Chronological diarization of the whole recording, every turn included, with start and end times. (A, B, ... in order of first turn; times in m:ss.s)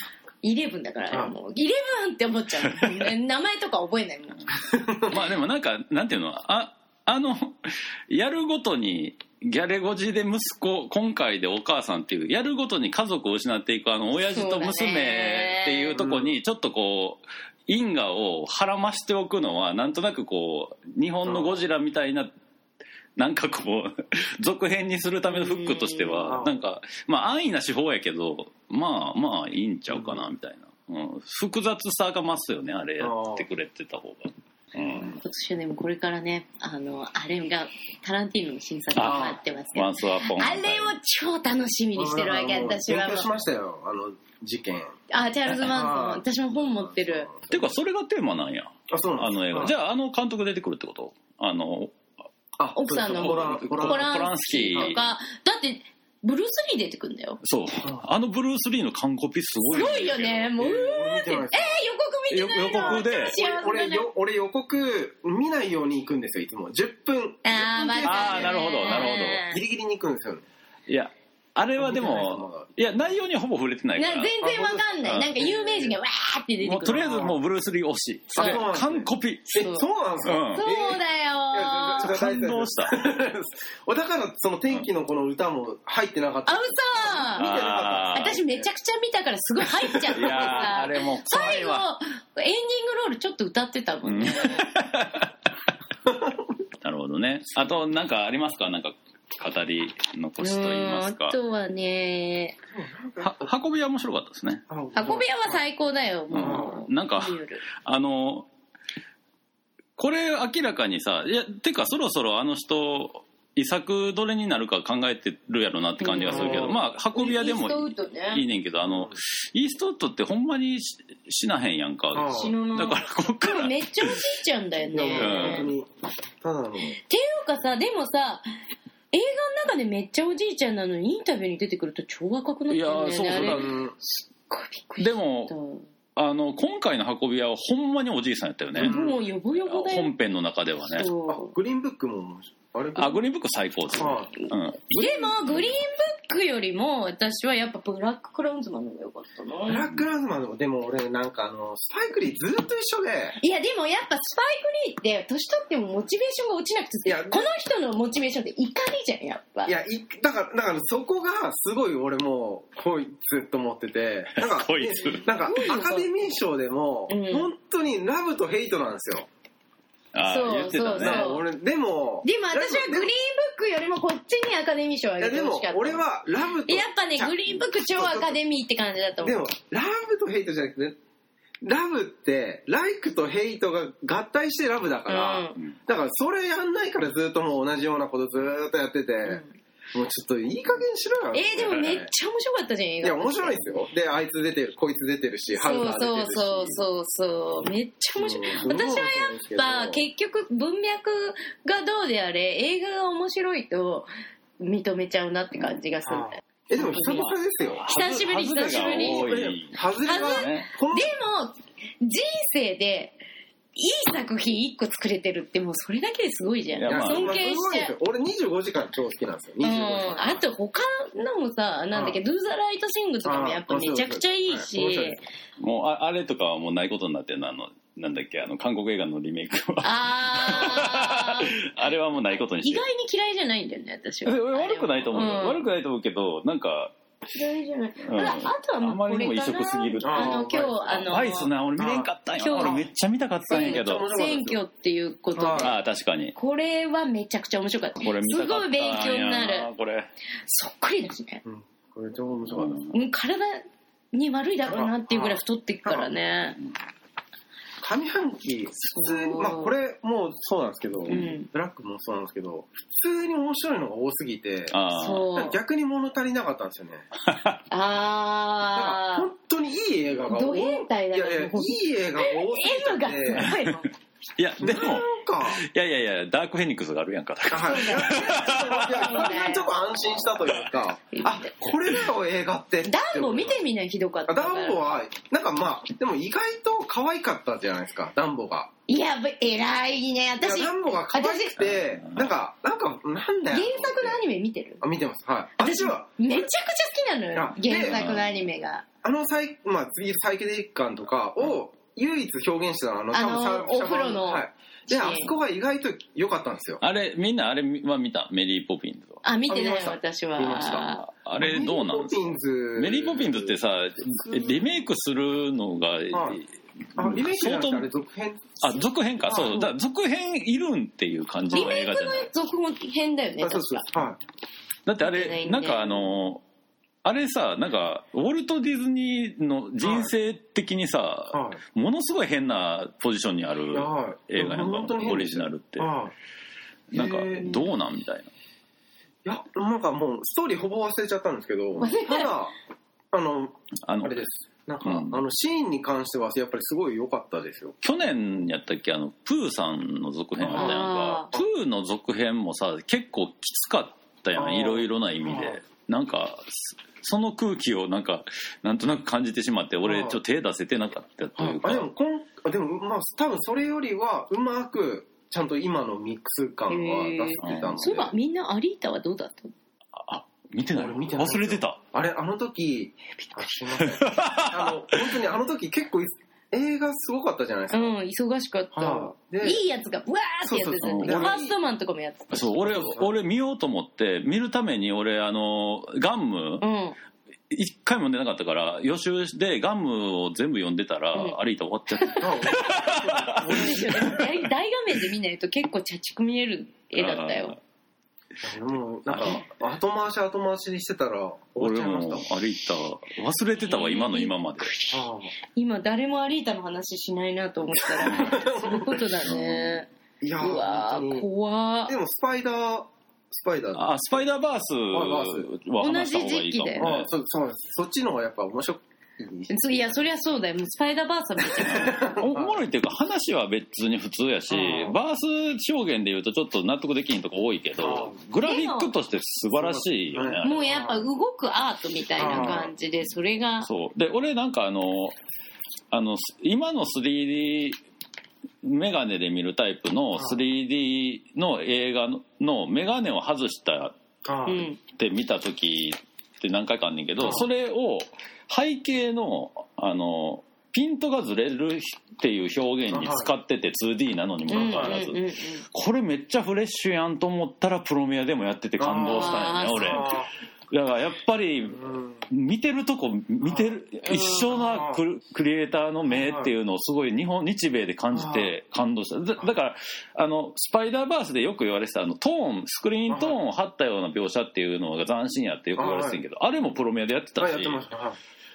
0:00.4-0:04.5 A
0:04.6-0:05.2 B
0:05.1-0:22.3 C
0:14.3-0:16.0 A
0:16.0-0:16.3 B
0:21.3-0:21.6 B
0:23.2-0:35.2 C
0:25.3-0:26.3 A
0:26.2-0:26.5 B
0:29.9-0:30.2 B
0:33.0-0:33.5 B
0:35.2-0:43.3 A
0:39.0-0:41.0 C
0:39.0-0:39.3 B
0:42.0-0:45.0 B
0:45.1-0:47.3 A
0:45.5-0:47.7 B
0:47.5-0:52.0 C
0:48.9-0:49.7 B
0:52.6-0:54.2 B
0:52.8-0:57.4 A
0:53.2-0:55.0 C
0:57.4-1:00.5 C
0:59.7-1:04.1 A
1:00.6-1:01.8 B
1:02.3-1:03.4 C
1:02.8-1:10.4 B
1:07.4-1:09.6 A
1:08.0-1:09.4 C
1:10.9-1:14.3 C
1:11.8-1:12.8 B
1:14.0-1:17.3 A
1:14.4-1:16.0 B
1:15.0-1:15.3 C
1:16.6-1:19.6 C
1:16.9-1:17.3 B
1:18.4-1:18.6 A
1:18.4-1:28.6 B
1:19.6-1:19.9 A
1:20.2-1:20.7 C
1:20.5-1:22.1 A
1:22.0-1:23.0 C
1:26.5-1:34.6 A
1:27.4-1:28.4 C
1:30.1-1:31.9 C
1:30.1-1:30.6 B
1:34.0-1:35.3 C
1:36.1-1:36.3 B
1:36.8-1:41.4 C
1:40.4-1:42.6 A
1:42.7-1:43.5 B
1:43.2-1:44.6 C
1:44.7-1:45.6 B
1:44.9-1:47.6 A
1:46.3-1:48.5 C
1:46.4-1:46.7 B
1:50.0-2:04.2 C
1:56.0-1:58.4 A
1:56.2-1:56.8 B
1:58.8-1:59.2 B
2:02.1-2:02.5 B
2:02.2-2:05.7 A
2:04.9-2:05.9 B
2:05.1-2:05.7 C
2:06.4-2:07.0 B
2:06.9-2:08.5 A
2:09.1-2:15.9 A
2:12.7-2:13.8 C
2:13.3-2:14.0 B
2:15.0-2:15.5 C
2:16.2-2:19.0 C
2:18.8-2:19.2 B
2:18.8-2:20.1 A
2:19.7-2:21.1 C
2:20.9-2:21.5 A
2:21.3-2:23.2 B
2:23.0-2:25.7 C
2:24.0-2:24.3 B
2:24.4-2:29.9 A
2:29.7-2:33.4 B
2:33.4-2:39.8 A
2:37.1-2:37.5 B
2:39.7-2:49.3 B
2:44.4-2:45.3 C
2:45.4-2:46.2 A
2:47.1-2:47.5 A
2:50.1-2:51.2 C
2:50.2-2:51.4 A
2:51.0-2:53.1 B
2:52.2-2:56.0 A
2:55.2-2:58.4 B
2:56.7-2:59.5 A
2:59.2-3:01.0 B
3:01.6-3:09.4 B
3:05.1-3:05.6 A
3:09.3-3:09.5 A
3:09.9-3:12.1 B
3:11.3-3:13.8 A
3:13.0-3:16.8 B
3:15.6-3:27.2 A
3:18.2-3:20.0 B
3:26.1-3:31.1 B
3:27.0-3:30.7 C
3:27.8-3:29.4 A
3:30.0-3:33.2 A
3:33.8-3:37.9 A
3:36.8-3:37.4 C
3:36.9-3:40.4 B
3:39.6-3:45.2 A
3:43.2-3:45.2 B
3:45.6-3:52.8 C
3:49.8-3:51.7 A
3:52.6-3:55.6 A
3:54.2-3:56.9 C
3:57.3-4:01.5 A
3:58.0-4:04.1 C
4:00.0-4:01.2 B
4:01.8-4:02.8 B
4:02.4-4:02.8 A
4:03.5-4:04.6 B
4:03.5-4:05.8 A
4:05.4-4:05.7 B
4:05.5-4:06.4 C
4:06.3-4:09.7 A
4:08.0-4:10.1 C
4:10.4-4:11.4 A
4:11.4-4:12.8 B
4:12.5-4:13.0 C
4:12.9-4:16.6 A
4:14.7-4:16.1 B
4:17.8-4:24.8 B
4:18.9-4:19.7 A
4:21.1-4:21.5 A
4:24.7-4:25.3 C
4:24.9-4:25.6 A
4:25.3-4:27.1 B
4:27.3-4:27.6 C
4:27.7-4:29.3 A
4:28.7-4:33.7 B
4:30.3-4:33.9 A
4:33.4-4:33.7 C
4:34.4-4:39.3 C
4:34.6-4:35.6 B
4:37.5-4:43.6 B
4:37.6-4:39.8 A
4:41.1-4:41.6 A
4:42.8-4:44.9 A
4:44.3-4:48.7 B
4:48.9-4:51.6 A
4:50.4-4:54.2 B
4:51.6-4:52.3 C
4:53.5-4:54.8 A
4:54.8-4:56.1 B
4:55.6-4:58.8 A
4:57.3-4:58.0 B
4:57.8-4:58.4 C
4:59.0-5:06.8 B
5:03.1-5:05.3 A
5:06.8-5:09.2 C
5:09.2-5:11.0 A
5:09.5-5:13.6 B
5:10.9-5:17.9 C
5:14.3-5:14.6 B
5:16.1-5:16.4 B
5:17.0-5:18.7 B
5:18.6-5:22.3 C
5:19.3-5:19.6 B
5:21.5-5:23.9 A
5:23.4-5:24.2 B
5:24.9-5:26.4 C
5:25.0-5:26.1 A
5:27.0-5:35.9 C
5:29.8-5:30.1 B
5:31.3-5:31.6 B
5:33.7-5:36.1 B
5:36.9-5:38.3 C
5:36.9-5:37.7 B
5:39.2-5:42.5 B
5:41.8-5:42.4 A
5:43.1-5:47.8 B
5:43.8-5:44.2 C
5:44.8-5:45.2 C
5:47.8-6:01.9 C
5:50.4-5:50.8 B
5:50.5-5:51.3 A
5:54.4-5:55.6 B
5:59.8-6:00.2 B
6:01.4-6:08.1 B
6:06.7-6:09.5 A
6:07.4-6:07.8 C
6:10.0-6:11.8 C
6:10.8-6:17.9 B
6:13.8-6:15.1 C
6:17.7-6:22.7 A
6:18.7-6:19.6 B
6:20.4-6:21.6 B
6:20.8-6:21.4 C
6:22.3-6:26.6 C
6:22.7-6:23.1 B
6:26.6-6:27.0 A
6:27.5-6:34.3 C
6:32.0-6:32.3 A
6:32.2-6:34.2 B
6:33.4-6:37.6 A
6:37.0-6:37.6 C
6:38.4-6:42.3 B
6:39.1-6:39.4 C
6:41.6-6:44.7 C
6:43.6-6:49.9 A
6:44.9-6:45.3 B
6:47.8-6:49.2 B
6:49.2-6:49.8 C
6:50.2-6:51.3 B
6:50.4-6:51.9 A
6:51.9-6:53.9 B
6:53.8-6:57.1 C
6:54.9-6:55.5 B
6:55.8-6:56.9 A
6:56.8-7:00.0 B
6:59.5-7:02.2 A
7:01.5-7:02.6 B
7:02.2-7:10.8 C
7:04.5-7:05.0 B
7:07.8-7:08.2 B
7:08.4-7:08.9 A
7:09.6-7:11.0 B
7:10.4-7:13.7 A
7:12.2-7:12.7 B
7:12.2-7:12.6 C
7:13.6-7:15.2 C
7:15.9-7:17.8 C
7:18.6-7:24.0 C
7:24.3-7:24.7 B
7:24.5-7:24.8 A
7:24.8-7:35.2 C
7:27.2-7:27.4 B
7:32.9-7:33.3 B
7:34.5-7:35.6 A
7:34.6-7:35.0 B
7:35.7-7:57.8 C
7:38.8-7:40.3 B
7:39.0-7:40.2 A
7:41.7-7:42.1 B
7:43.4-7:43.7 B
7:44.1-7:44.7 A
7:44.7-7:45.0 B
7:46.1-7:46.5 B
7:48.1-7:48.5 B
7:53.1-7:53.4 B
7:55.8-7:56.2 B
7:57.4-7:58.2 B